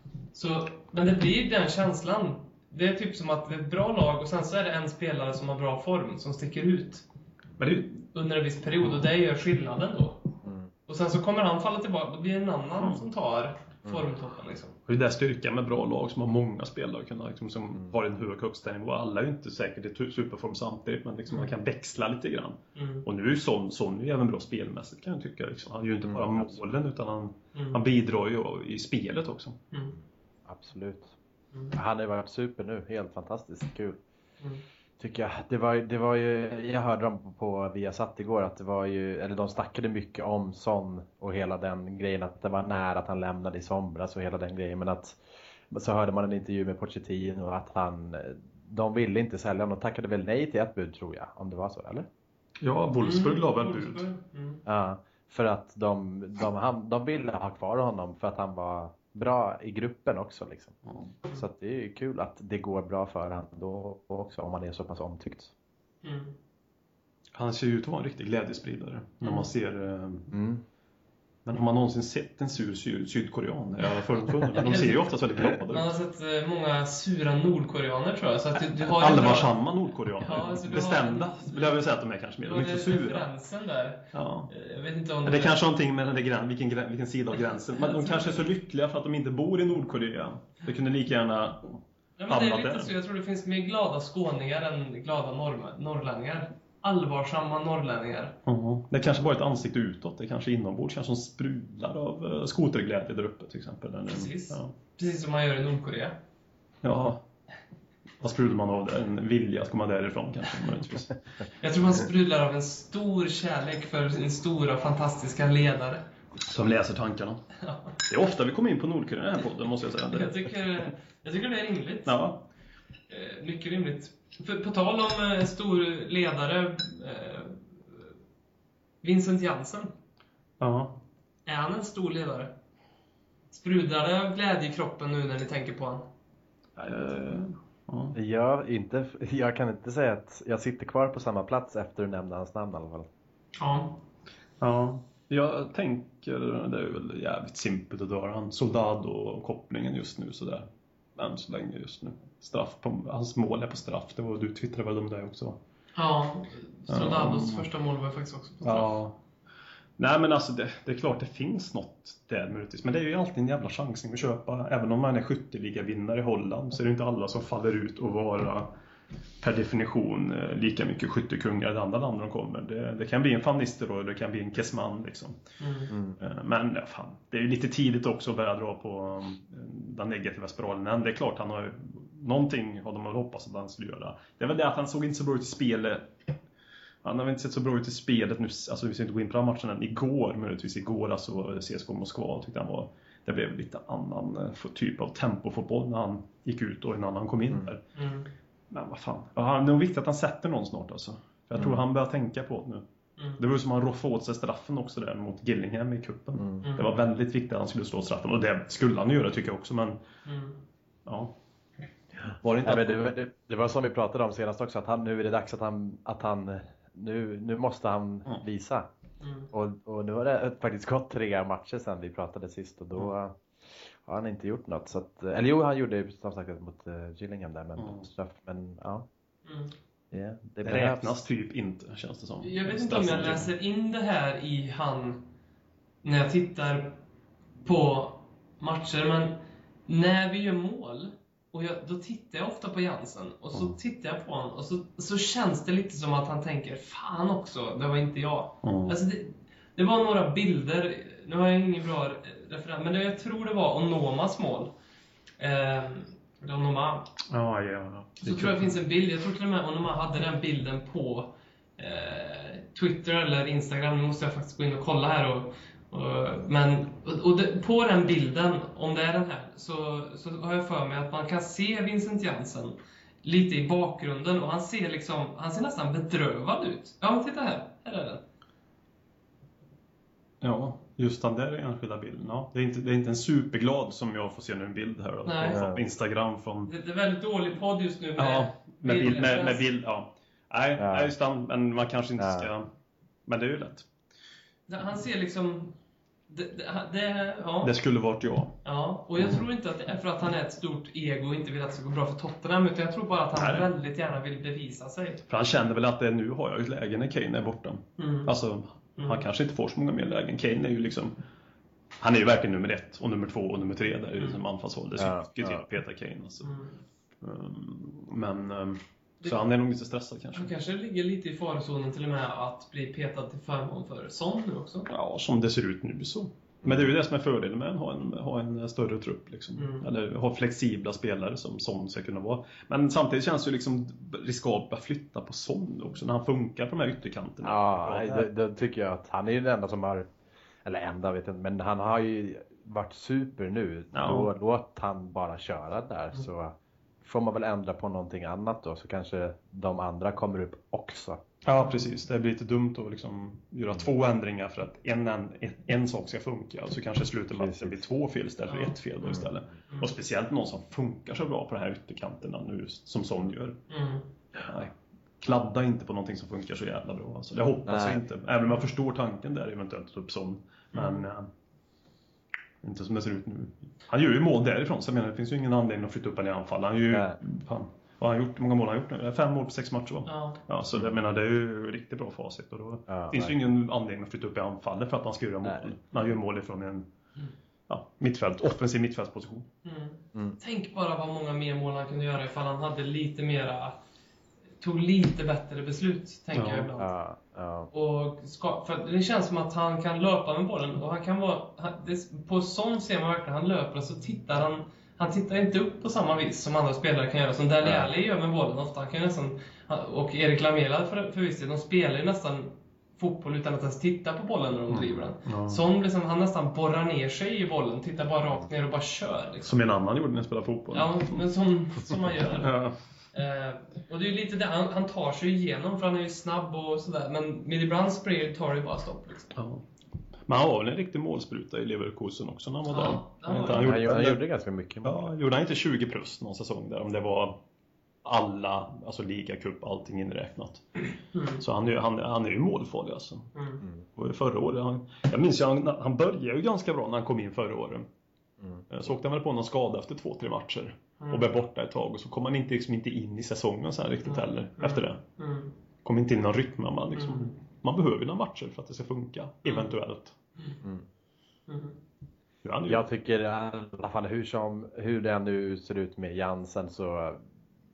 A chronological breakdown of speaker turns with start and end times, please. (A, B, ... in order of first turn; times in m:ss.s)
0:00.3-0:07.0 A
0:07.6-0:08.1 B
0:08.1-0:10.4 A
0:10.4-0:10.7 C
0:10.9-0:14.8 A
0:14.9-0:29.6 B
0:22.8-0:23.1 A
0:26.0-0:26.6 C
0:27.5-0:27.8 A
0:29.7-0:30.0 A
0:30.5-0:31.1 C
0:31.7-0:34.0 C
0:35.0-0:52.1 C
0:52.6-0:54.1 B
0:53.0-0:54.6 A
0:54.7-1:00.7 C
1:00.9-1:01.1 B
1:01.3-1:05.5 C
1:06.0-1:06.4 A
1:07.4-1:10.3 B
1:09.2-1:09.5 A
1:10.3-1:10.6 C
1:11.5-1:15.9 B
1:14.5-1:19.5 A
1:18.8-1:23.3 B
1:20.2-1:21.8 A
1:22.4-1:25.6 A
1:24.1-1:24.5 B
1:25.2-1:32.9 B
1:27.3-1:28.4 A
1:32.2-1:38.4 A
1:38.5-1:44.7 B
1:44.1-1:46.2 A
1:46.8-1:47.2 B
1:48.2-1:51.2 B
1:51.6-1:56.0 A
1:56.4-1:57.4 B
1:57.6-1:58.0 A
1:58.0-2:00.6 B
2:00.1-2:02.2 A
2:02.1-2:02.5 B
2:03.1-2:07.6 A
2:09.0-2:09.9 A
2:10.6-2:11.0 B
2:11.5-2:12.5 A
2:13.5-2:16.1 A
2:16.8-2:18.2 B
2:18.1-2:23.1 C
2:23.6-2:24.0 A
2:24.6-2:35.6 B
2:36.0-2:39.0 A
2:36.9-2:37.7 B
2:38.6-2:39.2 B
2:40.0-2:48.7 B
2:49.4-2:55.4 B
2:55.6-2:55.9 A
2:55.9-2:56.2 C
2:56.2-3:06.1 B
3:07.0-3:17.8 B
3:18.0-3:18.3 A
3:18.7-3:22.8 B
3:21.6-3:21.8 C
3:23.4-3:30.0 B
3:26.4-3:26.6 C
3:26.6-3:26.9 A
3:30.2-3:30.6 A
3:31.1-3:31.3 B
3:32.4-3:33.1 B
3:32.6-3:38.9 C
3:39.2-3:39.5 A
3:39.5-3:49.0 C
3:47.8-3:48.1 B
3:49.4-3:49.7 A
3:50.1-3:51.2 C
3:50.6-3:53.5 B
3:52.4-3:55.3 A
3:56.0-3:57.0 A
3:57.6-4:14.7 A
4:08.6-4:09.0 B
4:15.4-4:17.1 A
4:17.3-4:18.7 B
4:18.2-4:38.2 A
4:40.4-4:46.7 B
4:45.2-4:45.6 A
4:45.5-4:45.8 C
4:46.7-4:49.6 A
4:48.2-4:52.7 B
4:50.8-4:51.1 C
4:52.2-4:52.5 C
4:53.3-4:53.9 B
4:54.7-4:55.8 A
4:56.3-4:57.7 A
4:57.6-4:58.6 B
4:58.6-5:05.2 A
5:03.4-5:03.7 B
5:05.3-5:11.1 B
5:08.0-5:08.3 A
5:09.0-5:09.2 A
5:12.0-5:16.5 B
5:15.0-5:15.6 C
5:16.4-5:16.7 A
5:17.2-5:20.5 B
5:20.3-5:24.9 A
5:24.9-5:38.3 B
5:29.6-5:29.9 A
5:37.4-5:40.1 C
5:40.6-5:51.2 C
5:43.9-5:44.3 B
5:51.4-6:03.6 B
5:57.3-5:57.8 C
5:58.5-5:58.8 A
5:59.0-5:59.3 C
6:03.7-6:04.0 A
6:04.4-6:11.3 B
6:07.7-6:08.0 C
6:10.7-6:11.1 A
6:12.6-6:26.8 B
6:16.9-6:17.2 C
6:20.1-6:20.4 A
6:22.9-6:23.4 C
6:27.7-6:29.5 B
6:29.6-6:33.8 A
6:34.6-6:36.9 A
6:36.3-6:36.7 B
6:36.8-6:37.7 C
6:37.7-6:59.6 A
6:47.6-6:47.9 C
6:54.7-6:55.6 B
6:59.5-7:01.2 B
7:00.7-7:02.6 A
7:02.4-7:02.7 B
7:03.1-7:09.4 A
7:09.4-7:09.6 B
7:10.3-7:14.2 B
7:12.7-7:13.7 A
7:13.5-7:15.0 C
7:14.8-7:17.4 B
7:18.0-7:20.9 B
7:21.1-7:21.4 A
7:21.4-7:23.3 B
7:23.4-7:23.6 A
7:24.0-7:27.9 B
7:28.7-7:35.0 B
7:34.0-7:35.5 A
7:35.8-7:40.2 B
7:37.0-7:37.3 A
7:39.5-7:39.7 A
7:41.5-7:41.8 A
7:42.4-7:42.8 B
7:42.7-7:47.2 C